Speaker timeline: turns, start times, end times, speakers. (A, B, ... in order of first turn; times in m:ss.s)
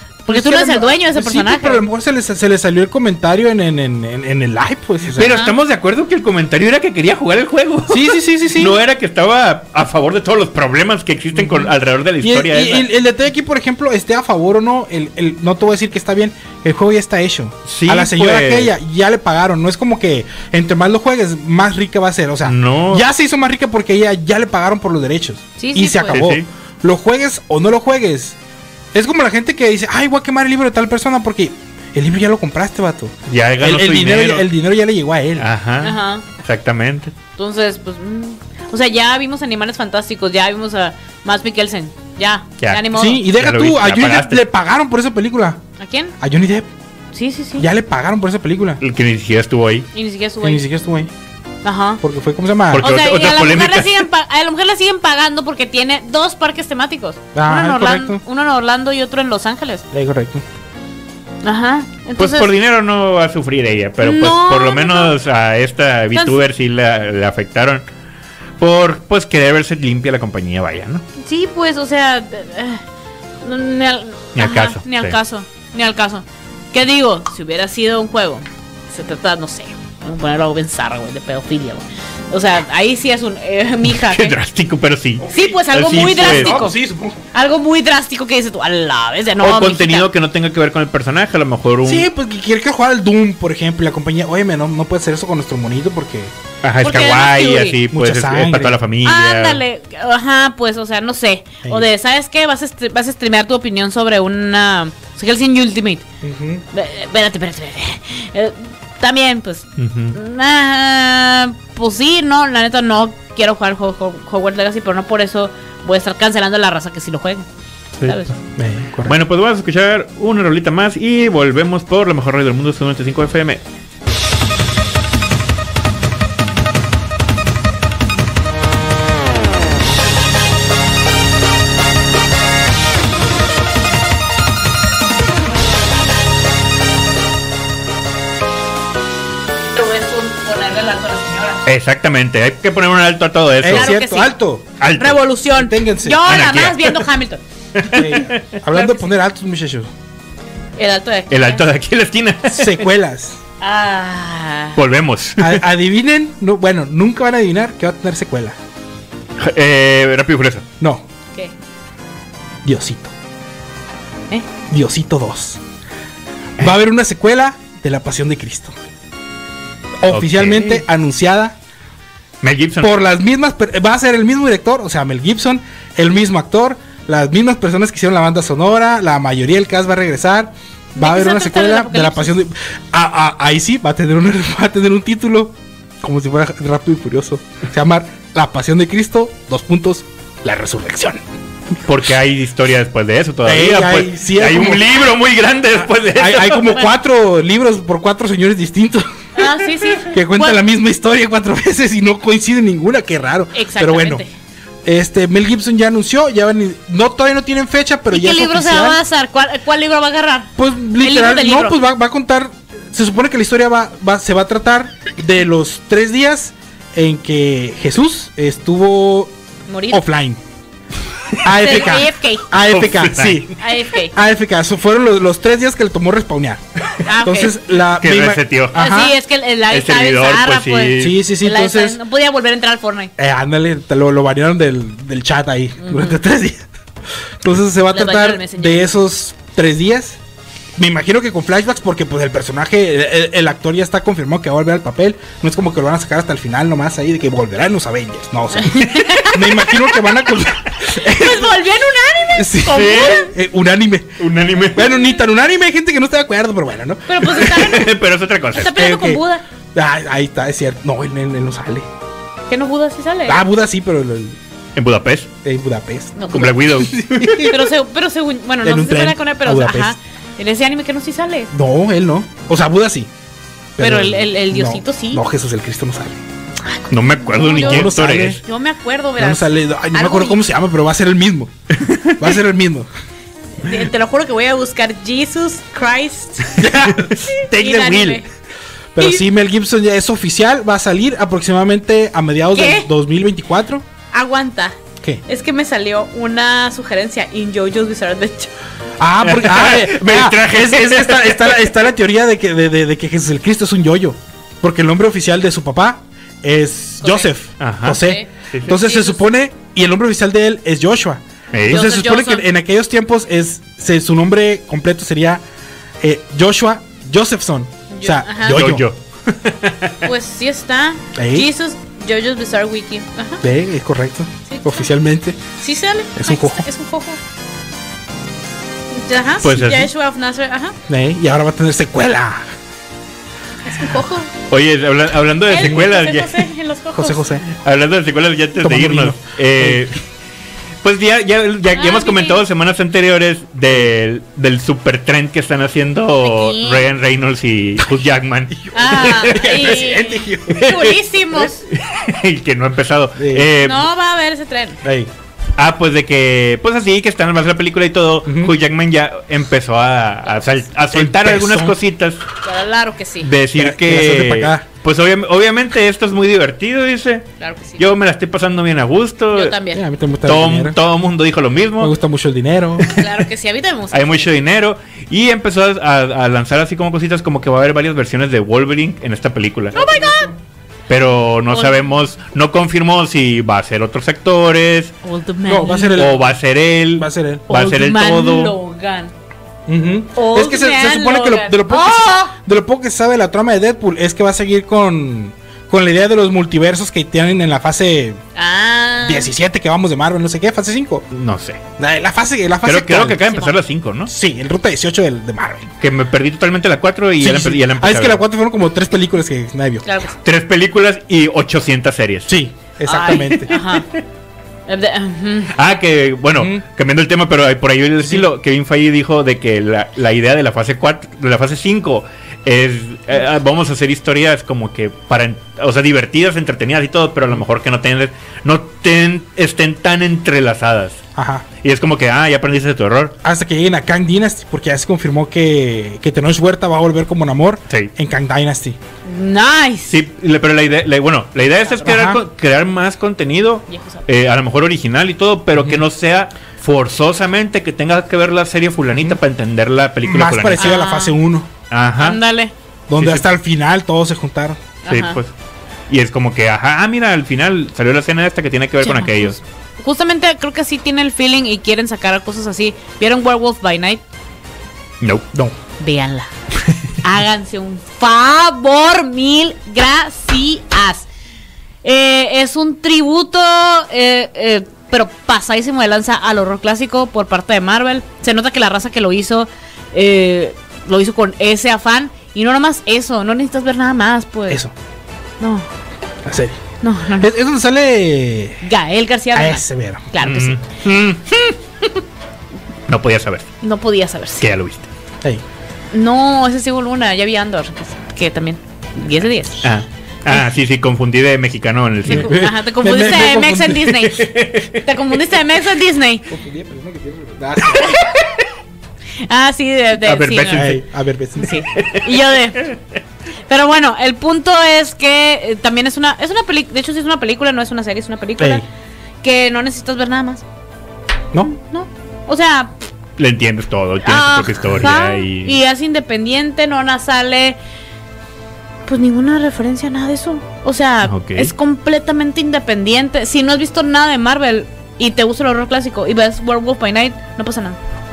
0:00.2-0:01.8 A
0:00.3-0:05.4 B
0:05.1-0:12.9 C
0:05.2-0:05.5 A
0:07.9-0:08.8 B
0:11.4-0:28.4 B
0:17.6-0:18.7 C
0:22.4-0:23.1 C
0:25.6-0:26.2 A
0:26.1-0:26.5 C
0:28.9-0:35.5 B
0:33.3-0:34.5 C
0:35.4-0:37.1 C
0:35.8-0:36.2 A
0:37.4-0:43.2 A
0:42.6-0:44.4 C
0:42.9-0:45.6 B
0:45.8-0:46.1 A
0:46.2-0:46.7 B
0:47.1-0:47.7 A
0:47.6-0:48.8 B
0:48.8-0:49.9 C
0:49.9-0:50.6 A
0:50.4-0:51.1 B
0:51.6-0:52.0 A
0:52.0-0:52.9 B
0:52.7-0:54.1 C
0:52.8-0:59.8 A
0:57.3-0:58.2 B
0:59.9-1:00.4 B
1:01.4-1:02.5 A
1:02.2-1:07.8 C
1:04.0-1:05.1 A
1:06.1-1:06.4 A
1:08.6-1:11.0 C
1:11.2-1:12.8 A
1:13.4-1:24.4 A
1:14.4-1:15.2 C
1:23.9-1:26.6 C
1:25.2-1:27.2 B
1:25.3-1:26.8 A
1:27.3-1:30.1 A
1:29.4-1:32.1 C
1:31.8-1:36.3 B
1:36.6-1:39.6 C
1:36.8-1:37.8 A
1:37.9-1:38.8 B
1:39.0-1:46.0 A
1:46.2-1:46.6 B
1:46.7-1:57.5 A
1:49.8-1:50.2 C
1:58.0-1:58.4 C
1:58.1-1:58.3 A
1:58.6-1:59.2 B
1:59.0-2:03.6 C
2:19.8-2:21.6 A
2:21.7-2:23.9 C
2:23.6-2:24.7 B
2:23.7-2:24.3 A
2:24.8-2:25.2 C
2:25.0-2:27.4 A
2:25.6-2:26.3 B
2:26.3-2:27.1 C
2:27.8-2:28.6 C
2:27.9-2:29.9 B
2:28.7-2:29.0 A
2:30.8-2:31.6 A
2:31.3-2:32.8 C
2:32.5-2:33.4 B
2:33.6-2:34.8 A
2:34.8-2:35.6 C
2:35.4-2:38.6 B
2:39.4-2:40.7 C
2:42.6-2:43.1 B
2:44.7-2:45.6 B
2:46.6-2:48.7 B
2:50.0-2:51.6 B
2:50.1-2:50.8 C
2:52.4-2:52.9 C
2:52.8-3:11.2 B
3:01.0-3:02.3 A
3:11.8-3:16.8 C
3:13.4-3:14.9 B
3:16.1-3:19.0 B
3:19.4-3:20.6 A
3:20.1-3:24.2 B
3:23.5-3:24.3 A
3:24.8-3:29.0 B
3:28.1-3:31.8 A
3:30.6-3:39.3 B
3:39.7-3:40.0 A
3:39.9-3:40.4 B
3:41.4-3:46.6 B
3:41.4-3:42.5 A
3:42.6-3:43.5 C
3:43.6-3:44.2 A
3:47.0-3:47.5 A
3:47.2-3:49.2 B
3:48.0-3:49.0 C
3:48.7-3:53.1 A
3:49.7-3:51.2 C
3:51.0-3:52.0 B
3:53.2-3:56.7 B
3:55.8-3:56.2 A
3:57.4-4:00.2 B
3:57.9-3:58.9 A
4:00.8-4:11.6 B
4:08.5-4:10.0 A
4:11.0-4:13.3 A
4:12.4-4:17.8 B
4:12.7-4:13.3 C
4:14.2-4:15.0 C
4:17.1-4:17.9 A
4:17.4-4:18.7 C
4:18.6-4:19.4 A
4:18.7-4:19.2 B
4:19.7-4:21.9 B
4:22.5-4:23.4 A
4:23.3-4:24.4 B
4:24.8-4:25.3 C
4:25.4-4:27.6 B
4:26.2-4:26.7 A
4:26.3-4:27.5 C
4:27.3-4:31.5 A
4:28.6-4:30.0 B
4:31.5-4:33.1 B
4:33.8-4:36.2 B
4:33.8-4:35.2 A
4:36.9-4:38.4 C
4:37.2-4:40.4 A
4:37.5-4:38.4 B
4:39.2-4:41.5 B
4:41.8-4:42.3 C
4:42.2-4:42.9 B
4:43.6-4:46.7 A
4:46.6-4:48.2 B
4:47.4-4:48.3 A
4:49.0-4:53.8 B
4:52.5-4:52.9 A
4:54.1-4:54.8 A
4:55.3-4:58.5 A
4:59.0-5:15.4 B
4:59.2-5:01.7 C
5:07.0-5:07.3 A
5:07.6-5:08.7 C
5:08.0-5:09.2 A
5:11.5-5:11.8 C
5:11.7-5:12.4 A
5:16.0-5:18.8 B
5:17.9-5:18.6 A
5:18.5-5:20.1 C
5:20.0-5:23.4 A
5:21.2-5:21.5 B
5:23.4-5:25.4 B
5:24.5-5:24.9 A
5:25.6-5:27.2 A
5:26.2-5:26.7 B
5:28.9-5:30.8 A
5:29.4-5:29.9 C
5:30.9-5:32.5 B
5:33.7-5:34.3 A
5:34.5-5:36.5 C
5:35.5-5:37.4 A
5:36.9-5:37.5 B
5:37.5-5:40.0 C
5:38.6-5:39.9 B
5:40.8-5:49.8 C
5:41.8-5:42.4 A
5:46.2-5:46.9 A
5:48.6-5:50.7 B
5:48.7-5:51.6 A
5:50.5-5:53.9 C
5:53.2-5:53.5 B
5:53.6-5:54.8 A
5:54.8-5:55.1 B
5:55.6-6:02.2 C
5:58.3-5:58.5 B
6:00.9-6:01.8 B
6:02.4-6:03.3 A
6:03.2-6:09.6 C
6:03.6-6:04.7 B
6:07.4-6:07.8 A
6:09.3-6:09.8 A
6:09.7-6:10.8 B
6:10.2-6:11.9 C
6:11.8-6:13.0 B
6:12.8-6:14.3 A
6:13.9-6:19.8 C
6:19.7-6:20.3 A
6:19.8-6:20.4 B
6:20.9-6:25.0 C
6:21.5-6:21.8 A
6:25.0-6:26.1 A
6:25.5-6:26.4 B
6:26.0-6:28.6 C
6:27.0-6:27.5 B
6:27.5-6:29.1 A
6:29.7-6:38.2 B
6:30.2-6:32.3 A
6:38.4-6:39.3 A
6:39.0-6:41.0 B
6:41.1-6:41.6 C
6:41.8-6:43.2 B
6:42.6-6:44.1 C
6:43.2-6:43.6 A
6:44.1-6:45.7 B
6:45.8-6:48.2 C
6:47.2-6:49.8 B
6:49.8-6:50.2 A
6:50.2-6:52.3 C
6:52.3-6:53.5 B
6:52.9-6:53.9 A
6:53.1-6:53.8 C
6:54.7-6:55.5 A
6:55.5-7:11.0 C
6:56.4-6:56.6 B
6:58.0-6:58.3 B
7:11.2-7:11.5 B
7:11.6-7:13.2 C
7:13.2-7:18.8 B
7:19.0-7:20.0 A
7:19.9-7:30.8 C
7:21.8-7:22.2 B
7:23.7-7:24.0 A
7:30.0-7:31.5 B
7:30.6-7:31.2 A
7:31.7-7:32.2 C
7:32.0-7:32.5 A
7:32.9-7:34.6 B
7:33.0-7:33.2 C
7:34.8-7:35.2 A
7:34.9-7:35.3 C
7:35.9-7:39.4 C
7:38.8-7:44.0 A
7:45.0-7:45.3 C
7:45.8-7:46.3 A
7:47.0-7:51.1 A
7:51.8-8:04.6 A
8:05.4-8:05.7 A
8:06.2-8:06.6 B
8:06.8-8:07.3 A
8:07.2-8:08.6 B
8:08.6-8:10.6 A
8:09.3-8:10.1 B
8:10.2-8:11.6 C
8:12.9-8:13.5 C
8:13.6-8:14.5 A
8:14.4-8:14.9 C
8:15.9-8:19.6 A
8:19.6-8:22.3 C
8:22.0-8:26.3 A
8:22.1-8:23.9 B
8:23.9-8:25.0 C
8:26.3-8:28.0 B
8:27.7-8:28.3 A
8:29.2-8:30.8 A
8:30.0-8:30.8 C
8:30.5-8:31.6 B
8:31.4-8:32.7 A
8:31.8-8:32.1 C
8:33.5-8:38.6 A
8:38.4-8:38.7 B
8:39.2-8:40.4 A
8:41.4-8:42.8 A
8:43.2-8:45.6 C
8:44.0-8:47.6 A
8:48.9-8:57.8 A
8:51.0-8:51.5 C